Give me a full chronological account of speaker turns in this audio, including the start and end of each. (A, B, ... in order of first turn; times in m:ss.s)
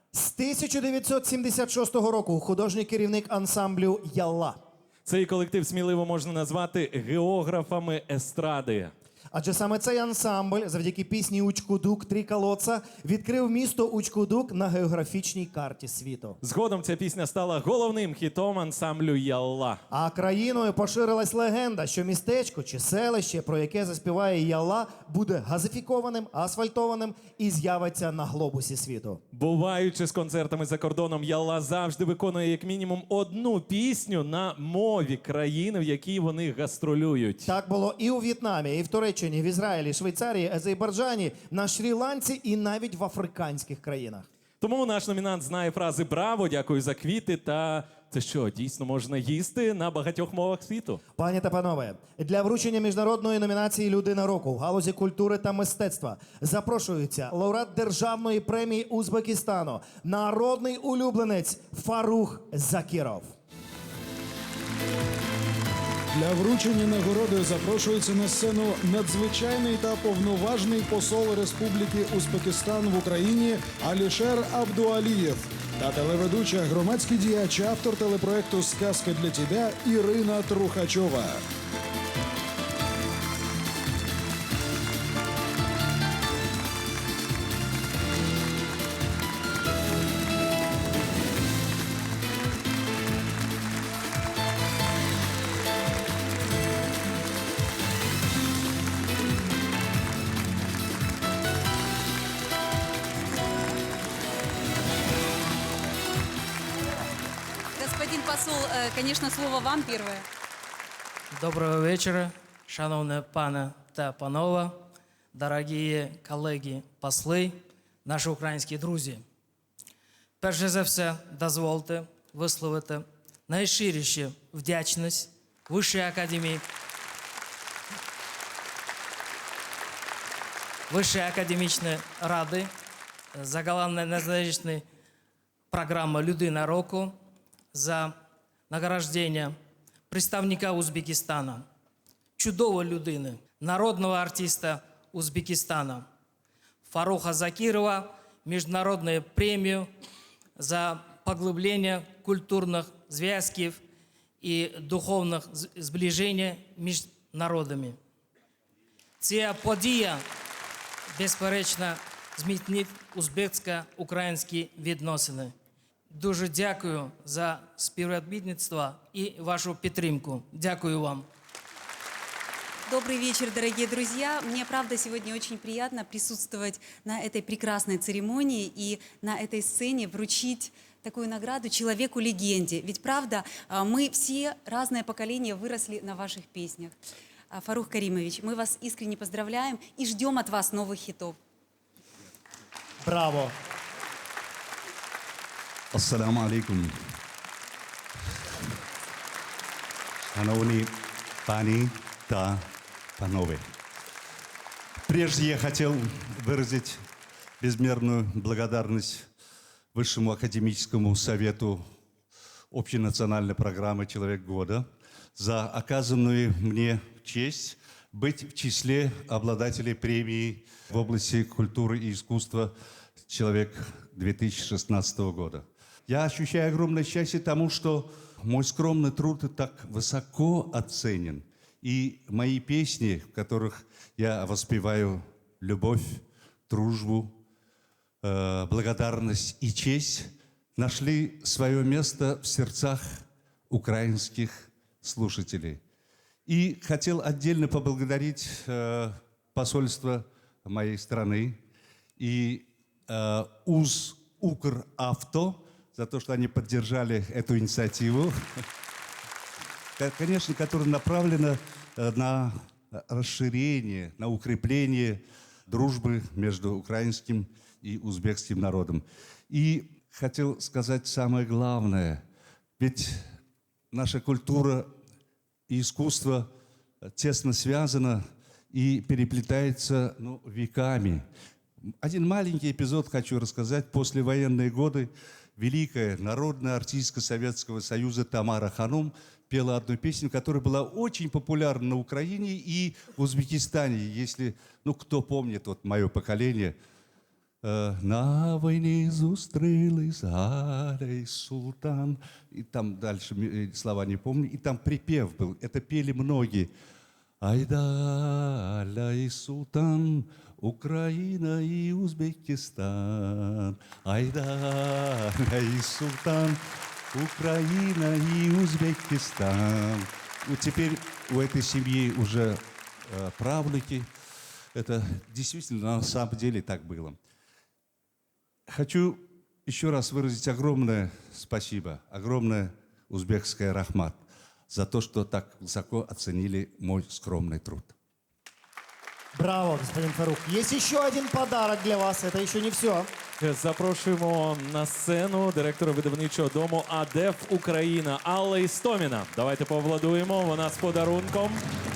0:00.1-0:04.6 A
0:05.0-0:08.9 B
0:09.3-0:16.4 A
0:16.4-0:19.8 B
0:19.9-0:29.2 A
0:29.3-0:37.5 B
0:37.4-0:44.3 A
0:44.6-0:51.0 B
0:51.2-1:03.3 A
1:06.1-1:21.4 C
1:47.8-1:50.2 D
1:51.3-1:59.2 E
2:00.4-2:06.6 E
2:10.9-2:12.7 E
2:13.3-2:14.8 E
2:15.7-2:17.1 E
2:17.7-2:18.1 E
2:18.7-2:19.5 E
2:20.1-2:21.6 E
2:22.4-2:26.0 E
2:26.8-2:29.9 E
2:30.6-2:33.8 E
2:34.4-2:38.0 E
2:39.2-2:40.2 E
2:41.1-2:45.5 E
2:46.1-2:51.2 E
2:52.9-3:07.0 D
3:07.5-3:11.4 D
3:13.0-3:13.5 A
3:15.9-3:16.9 F
3:20.3-3:22.7 F
3:23.2-3:23.7 F
3:25.1-3:27.0 F
3:27.6-3:29.3 F
3:29.9-3:31.8 F
3:32.7-3:34.8 F
3:35.4-3:42.7 F
3:43.3-3:57.4 F
3:58.2-4:05.8 F
4:06.5-4:11.6 F
4:12.2-4:18.4 F
4:20.0-4:32.2 F
4:32.8-4:33.2 F
4:33.9-4:34.9 F
4:35.7-4:36.5 F
4:37.2-4:41.2 F
4:42.0-4:56.8 F
4:57.6-5:06.7 F
5:07.4-5:16.6 F
5:17.1-5:24.1 F
5:24.7-5:27.2 F
5:28.7-5:37.9 F
5:39.3-5:43.1 A
5:43.4-5:51.6 B